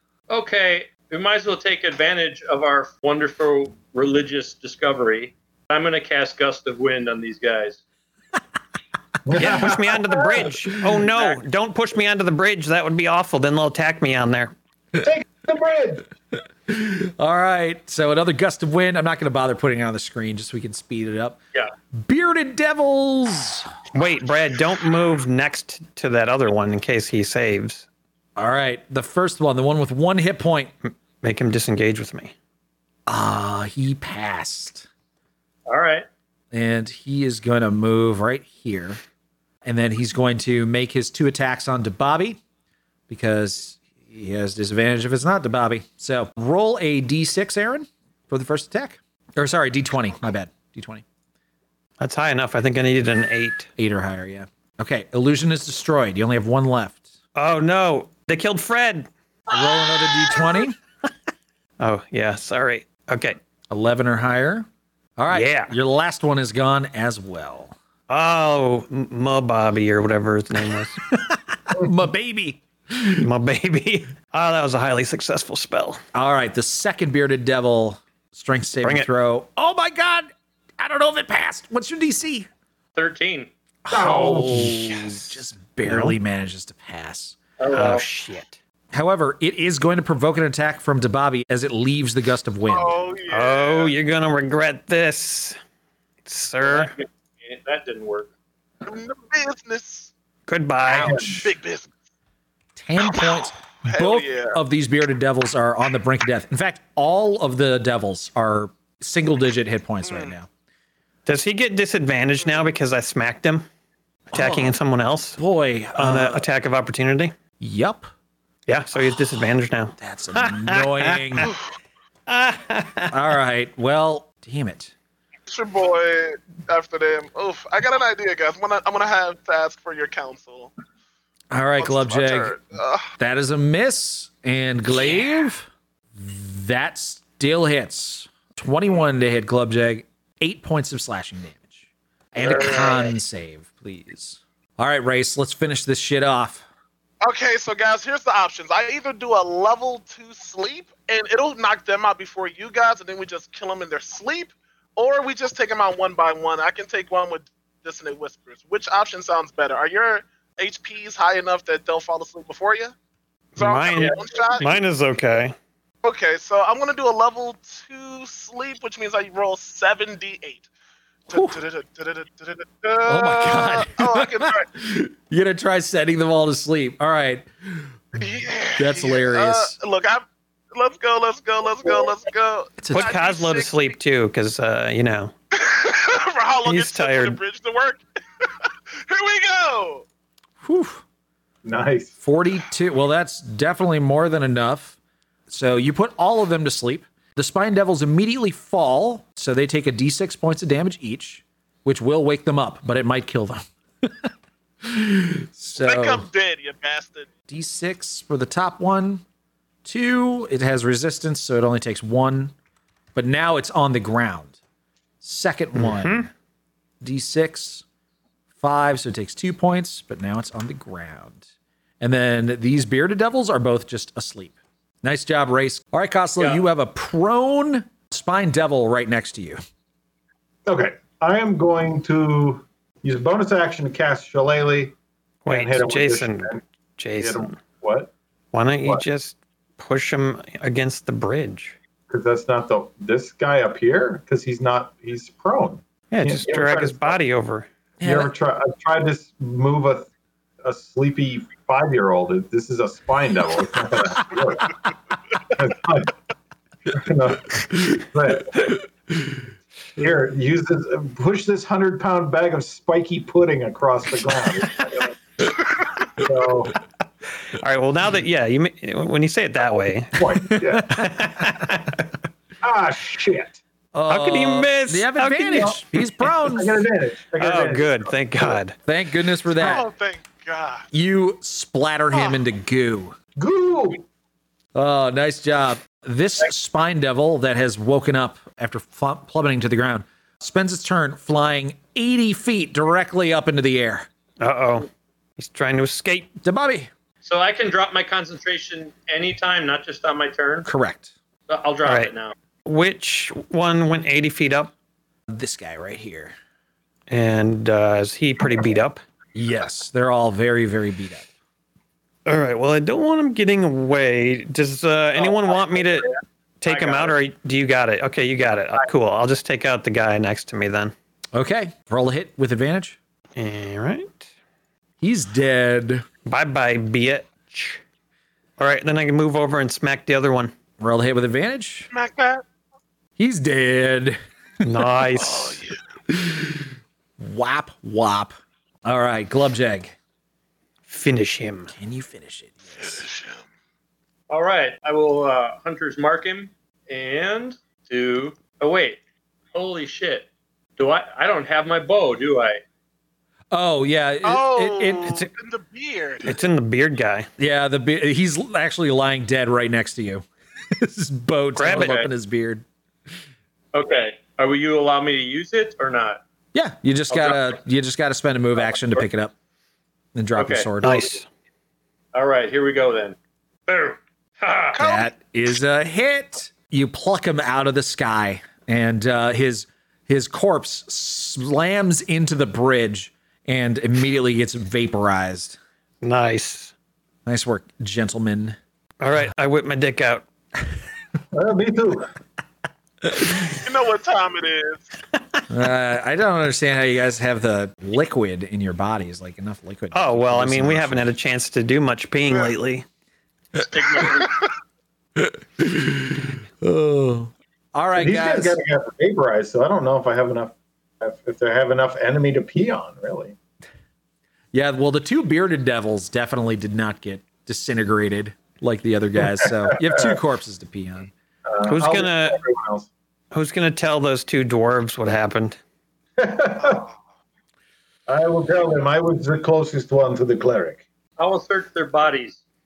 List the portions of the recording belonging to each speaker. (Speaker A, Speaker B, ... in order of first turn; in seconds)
Speaker A: 0.3-7.8, 35.7-36.0, 82.9-83.5, 87.6-88.0, 96.6-98.3, 297.2-300.6, 301.5-302.3, 316.6-317.1, 344.3-349.0, 349.5-352.6, 361.7-362.1, 363.7-366.2, 367.1-367.5, 370.4-370.7, 372.1-373.1, 373.7-374.8, 403.6-404.5, 431.2-432.4
Speaker B: 9.2-10.5, 14.9-16.1, 83.9-84.8, 191.6-192.1, 230.7-234.9, 235.4-236.6, 237.2-238.1, 242.1-247.2, 248.0-250.1, 250.6-256.1, 256.9-258.8, 260.0-265.5, 266.1-266.8, 270.1-271.1, 272.6-273.6, 276.4-278.1, 283.4-284.0, 391.3-392.1, 407.9-413.4, 421.5-422.9, 426.2-426.9, 428.1-430.8
Speaker C: 9.3-14.5, 23.9-27.9, 30.9-32.3, 52.0-53.7, 57.4-59.1, 61.8-63.4, 65.3-65.7, 68.1-71.0, 73.2-76.0, 78.8-79.1, 84.0-85.2, 85.8-86.2, 87.7-88.6, 93.3-95.6, 96.2-96.9, 100.5-101.3, 111.2-113.6, 114.3-115.4, 116.0-117.3, 118.7-121.5, 122.3-123.2, 163.6-165.6, 182.9-185.3, 186.6-187.4, 215.7-216.3, 235.4-237.5, 238.5-241.8, 246.1-247.7, 267.5-270.2, 270.9-272.0, 274.1-276.0, 277.4-278.8, 294.4-296.3, 301.8-302.1, 302.6-304.7, 307.1-309.0, 312.2-320.9, 323.4-324.3, 326.2-327.8, 328.6-330.5, 334.6-335.6, 340.9-341.7, 355.0-355.3, 356.2-357.3, 361.5-361.9, 370.8-371.2, 386.0-386.7, 389.0-390.2, 399.9-402.8, 421.6-422.4, 423.3-425.6
Speaker D: 16.7-21.4, 21.9-23.7, 28.4-30.7, 33.1-34.9, 36.5-39.0, 39.6-42.4, 43.1-51.0, 53.8-57.0, 59.5-60.8, 63.7-67.7, 71.1-73.2, 76.1-82.5, 83.8-87.4, 88.9-93.0, 100.8-101.5, 102.8-110.5, 114.3-114.8, 115.4-116.4, 117.6-118.1, 120.0-121.5, 123.1-124.9, 131.5-132.6, 133.2-146.7, 171.3-171.6, 173.0-178.0, 178.8-179.7, 182.8-183.1, 190.6-191.0, 192.2-195.0, 195.5-204.3, 204.8-206.3, 207.5-209.2, 209.8-212.5, 213.1-214.6, 215.2-216.3, 217.0-217.8, 218.6-221.4, 222.0-229.6, 248.0-248.3, 270.5-271.0, 273.9-276.8, 278.8-279.9, 280.9-283.1, 284.7-294.1, 296.4-296.9, 300.6-301.1, 305.3-306.3, 309.3-311.3, 321.3-323.0, 325.0-326.1, 330.8-331.9, 333.2-334.2, 336.1-338.3, 338.8-339.9, 341.7-343.0, 353.5-355.2, 357.4-362.6, 366.5-369.3, 370.1-371.2, 374.8-385.6, 387.2-388.6, 395.5-401.1, 405.2-408.6, 414.5-421.1
Speaker E: 92.7-93.9, 98.8-100.1, 101.0-101.9, 103.0-104.6, 110.0-110.3, 125.5-130.7, 131.8-133.1, 142.4-143.1, 147.2-162.9, 163.6-164.8, 166.0-170.7, 171.3-174.7, 178.2-183.9, 185.5-190.0, 205.8-207.3, 279.5-280.9, 282.1-282.4, 331.9-332.4, 335.2-335.8, 342.8-343.4, 354.2-356.4, 374.8-375.1, 393.5-394.9